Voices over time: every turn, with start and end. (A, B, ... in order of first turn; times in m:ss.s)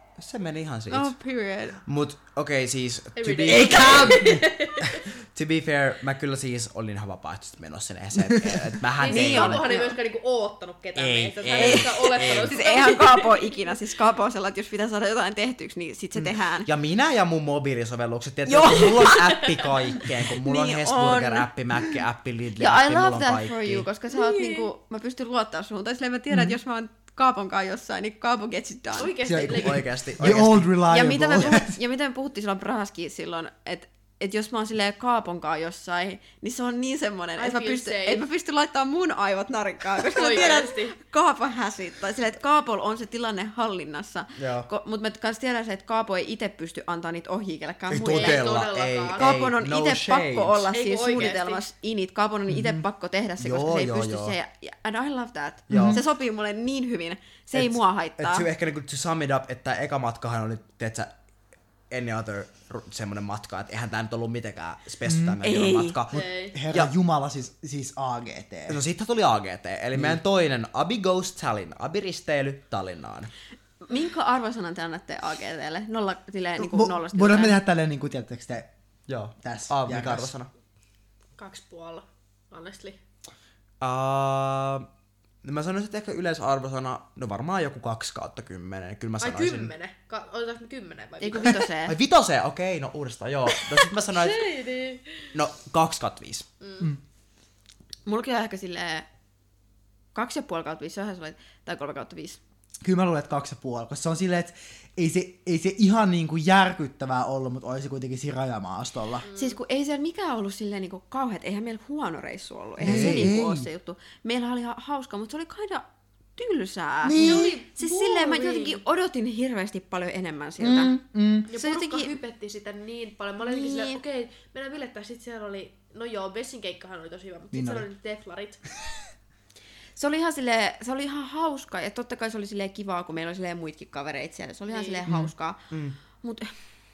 0:00.2-0:01.2 A
0:00.9-0:01.8 B
0:01.8-0:04.4 A
0:03.2-0:05.1 C
0:03.5-0:04.5 D
0:05.3-0:09.7 A
0:08.2-0:08.7 D
0:09.0-0:13.7 C
0:09.1-0:10.0 B
0:11.0-0:12.6 A
0:11.6-0:16.7 B
0:16.2-0:23.9 A
0:18.5-0:19.5 B
0:20.4-0:21.5 B
0:22.6-0:29.2 B
0:24.1-0:24.6 C
0:26.3-0:26.6 D
0:29.0-0:29.9 C
0:29.3-0:31.8 D
0:29.3-0:30.7 A
0:30.9-0:48.6 B
0:37.4-0:38.2 C
0:40.1-0:41.0 C
0:44.4-0:44.7 A
0:47.9-0:50.7 A
0:48.0-0:49.5 C
0:49.2-0:58.5 B
0:50.7-0:51.6 C
0:53.4-0:54.4 A
0:55.7-0:56.0 A
0:55.7-0:56.0 D
0:57.6-1:01.1 A
1:01.9-1:06.9 A
1:05.0-1:05.4 D
1:05.4-1:06.0 B
1:06.1-1:08.8 D
1:06.1-1:06.6 C
1:08.7-1:13.3 A
1:09.9-1:10.2 D
1:13.9-1:17.6 B
1:16.6-1:18.7 D
1:19.1-1:20.5 A
1:19.4-1:20.3 D
1:21.4-1:23.0 C
1:23.8-1:24.9 A
1:25.4-1:29.7 A
1:29.2-1:31.7 C
1:31.2-1:32.0 B
1:31.8-1:34.5 A
1:34.1-1:35.3 C
1:35.3-1:36.5 A
1:36.6-1:36.9 C
1:38.1-1:39.1 B
1:40.1-1:42.4 B
1:42.8-1:49.3 D
1:49.2-1:49.6 C
1:49.4-2:01.0 B
1:52.8-1:53.7 D
1:52.8-1:53.4 A
1:57.0-1:57.6 D
1:57.1-1:58.8 C
2:00.6-2:01.5 D
2:01.5-2:08.6 C
2:01.5-2:02.1 B
2:03.4-2:04.0 B
2:07.5-2:07.9 D
2:10.0-2:15.6 B
2:14.7-2:15.0 C
2:15.7-2:16.0 A
2:16.2-2:16.5 B